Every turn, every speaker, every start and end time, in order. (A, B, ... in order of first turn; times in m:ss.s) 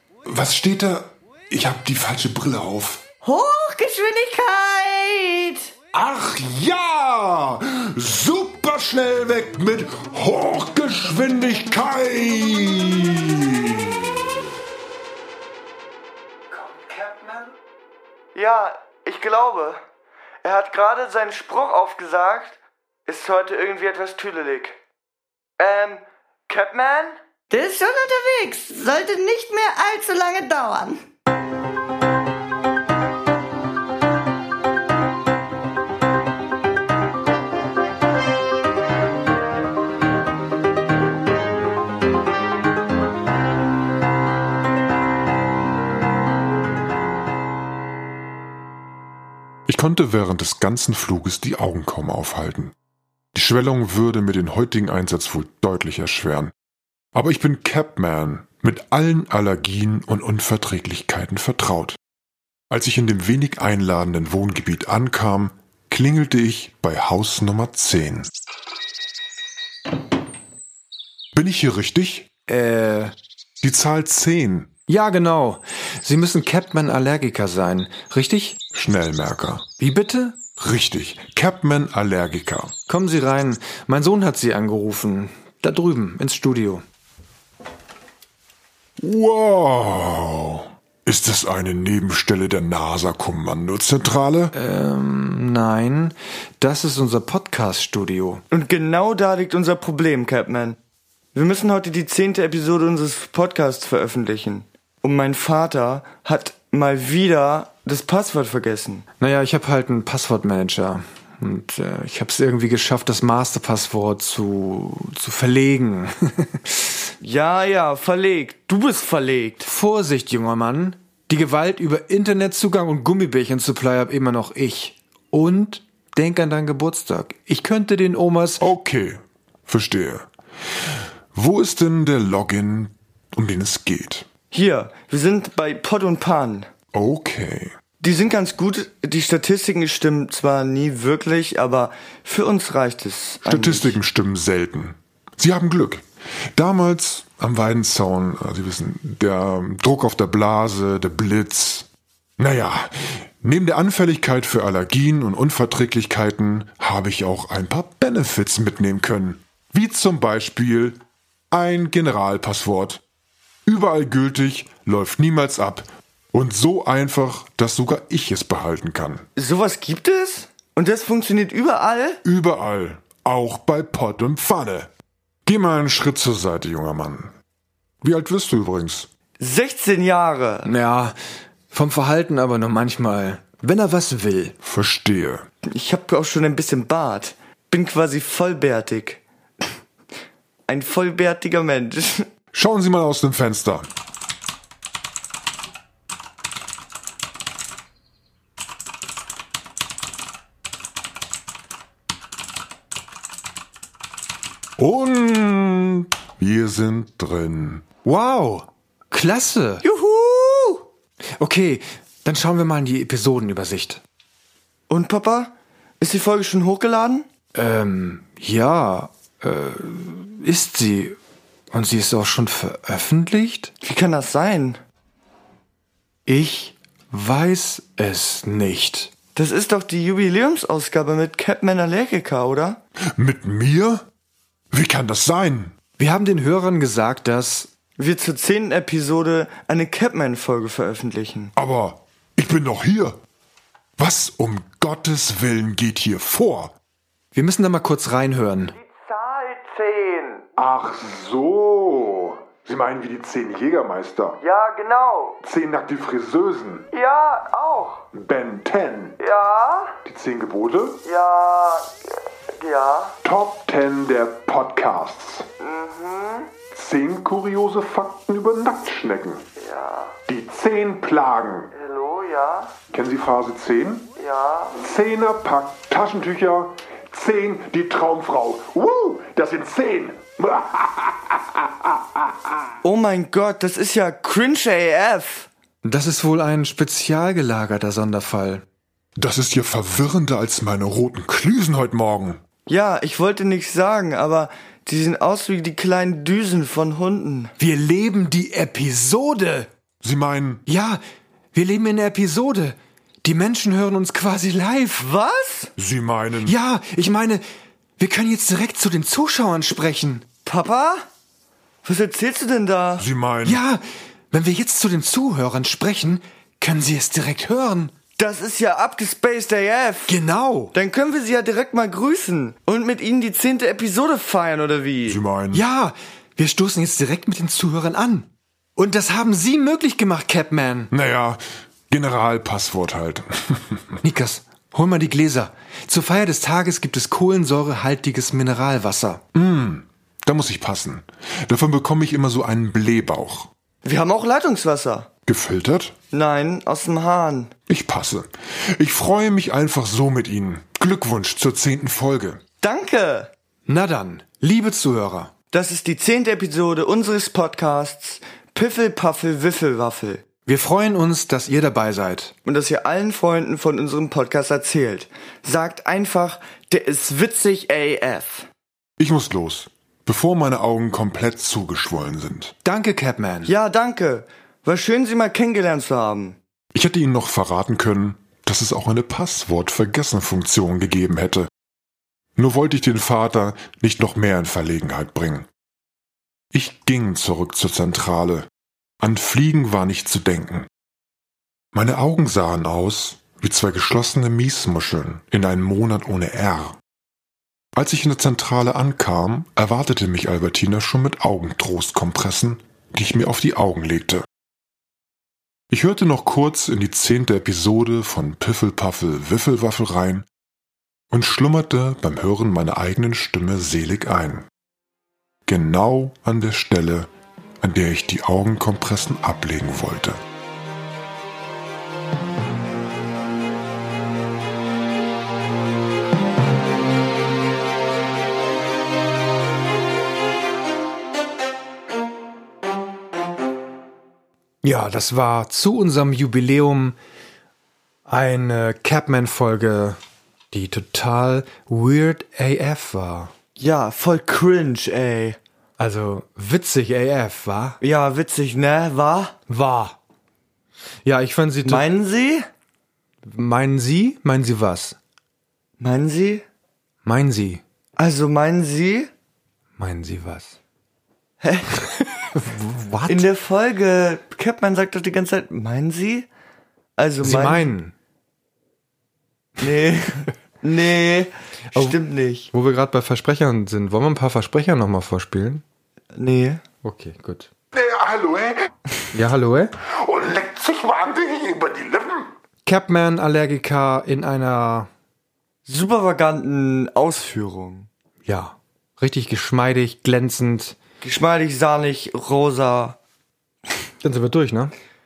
0:00.2-0:03.0 A
0:03.2-0:05.7 B
0:05.9-0:14.2 A
0:16.5-0:17.5 C
0:18.3-0:19.8 D
0:20.4-0:24.8 D
0:25.6-0:27.2 D
0:27.5-0:31.0 B
0:49.7-0:52.7 A
0:53.3-0:56.5 A
0:57.1-1:02.0 A
1:02.7-1:08.3 A
1:11.3-1:12.3 A
1:12.5-1:13.1 C
1:13.6-1:14.7 A
1:14.9-1:18.6 C
1:18.7-1:19.7 A
1:19.8-1:20.4 C
1:20.6-1:22.7 A
1:22.9-1:26.8 C
1:29.0-1:34.5 A
1:34.5-1:38.4 C
1:38.5-1:40.8 D
1:41.3-1:49.0 D
1:49.2-1:56.9 C
1:57.2-1:59.7 D
1:59.6-2:08.6 C
2:08.6-2:10.3 A
2:11.3-2:14.3 A
2:14.5-2:16.7 D
2:16.9-2:17.7 A
2:18.0-2:24.0 D
2:23.4-2:41.0 A
2:41.5-2:43.0 A
2:43.6-2:49.2 A
2:49.4-2:52.2 D
2:52.2-2:54.9 A
2:55.4-2:57.3 A
2:58.0-2:59.1 A
2:59.4-3:00.7 D
3:00.6-3:01.1 C
3:01.7-3:04.6 C
3:04.6-3:05.4 A
3:05.7-3:09.2 D
3:10.7-3:12.3 D
3:12.5-3:13.9 A
3:24.8-3:27.9 A
3:28.0-3:29.8 C
3:29.8-3:30.8 D
3:31.4-3:34.0 C
3:34.9-3:37.2 D
3:37.5-3:41.2 C
3:41.7-3:43.7 C
3:43.8-3:44.8 D
3:46.2-3:49.1 C
3:49.3-3:52.8 D
3:53.2-3:54.0 A
3:54.7-3:55.7 A
3:56.0-3:57.7 C
3:58.0-4:01.5 D
4:01.6-4:03.1 A
4:04.0-4:06.7 A
4:07.3-4:08.7 C
4:08.8-4:10.5 D
4:10.6-4:14.4 A
4:14.4-4:15.4 D
4:15.4-4:16.9 A
4:16.9-4:18.0 D
4:18.1-4:19.2 A
4:19.2-4:20.0 D
4:20.0-4:21.0 A
4:21.0-4:22.0 D
4:22.5-4:23.2 D
4:23.2-4:25.5 A
4:25.6-4:26.5 D
4:26.7-4:29.4 A
4:29.6-4:30.2 D
4:30.3-4:31.7 A
4:31.7-4:32.7 D
4:32.9-4:34.1 A
4:34.2-4:34.8 D
4:34.8-4:42.3 A
4:42.8-4:45.5 D
4:45.8-4:48.6 C
4:49.2-4:52.4 A
4:52.7-4:57.5 D
4:57.6-4:59.7 C
5:00.0-5:00.6 A
5:00.6-5:01.0 C
5:01.5-5:05.1 C
5:05.0-5:05.7 D
5:05.8-5:06.6 A
5:06.4-5:07.4 C
5:08.0-5:10.2 C
5:10.4-5:11.0 D
5:11.8-5:13.0 D
5:13.0-5:13.6 A
5:13.4-5:13.8 C
5:14.3-5:17.9 C
5:18.2-5:20.2 D
5:20.1-5:20.7 C
5:20.7-5:25.2 D
5:25.0-5:25.6 A
5:25.5-5:30.9 C
5:30.9-5:34.0 A
5:34.0-5:39.2 C
5:39.3-5:43.5 A
5:43.8-5:45.1 D
5:45.3-5:45.9 A
5:46.1-5:47.5 D
5:47.7-5:52.4 A
5:52.6-5:53.3 D
5:53.7-5:55.3 C
5:55.5-6:00.2 D
6:00.4-6:02.3 C
6:02.4-6:08.5 D
6:09.0-6:12.5 A
6:12.6-6:13.5 C
6:13.4-6:16.4 D
6:16.7-6:21.5 A
6:22.4-6:25.5 A
6:26.5-6:28.5 A
6:29.0-6:30.7 A
6:31.7-6:36.8 A
6:37.8-6:44.2 A
6:45.7-6:50.3 A
6:51.1-6:54.5 A
6:55.5-6:57.1 A
6:57.6-7:00.2 A
7:14.6-7:17.0 C
7:18.1-7:20.0 C
7:20.5-7:23.3 C
7:23.6-7:25.4 D
7:25.8-7:27.8 C
7:27.8-7:29.3 D
7:29.5-7:30.0 C
7:31.0-7:31.8 C
7:31.6-7:32.4 D
7:33.2-7:35.0 C
7:35.8-7:36.4 D
7:37.0-7:37.6 C
7:38.0-7:39.1 D
7:39.8-7:40.6 C
7:41.4-7:41.8 D
7:42.3-7:43.2 C
7:43.1-7:46.3 D
7:47.0-7:47.7 D
7:47.2-7:47.9 C
7:49.6-7:52.5 D
7:52.5-7:55.6 C
7:56.1-7:56.6 D
7:56.8-7:57.5 C
7:57.7-7:58.6 A
7:59.1-7:59.7 C
7:59.9-8:02.3 A
8:02.6-8:04.9 C
8:05.6-8:07.9 D
8:08.2-8:10.8 C
8:11.0-8:13.0 D
8:14.0-8:14.7 C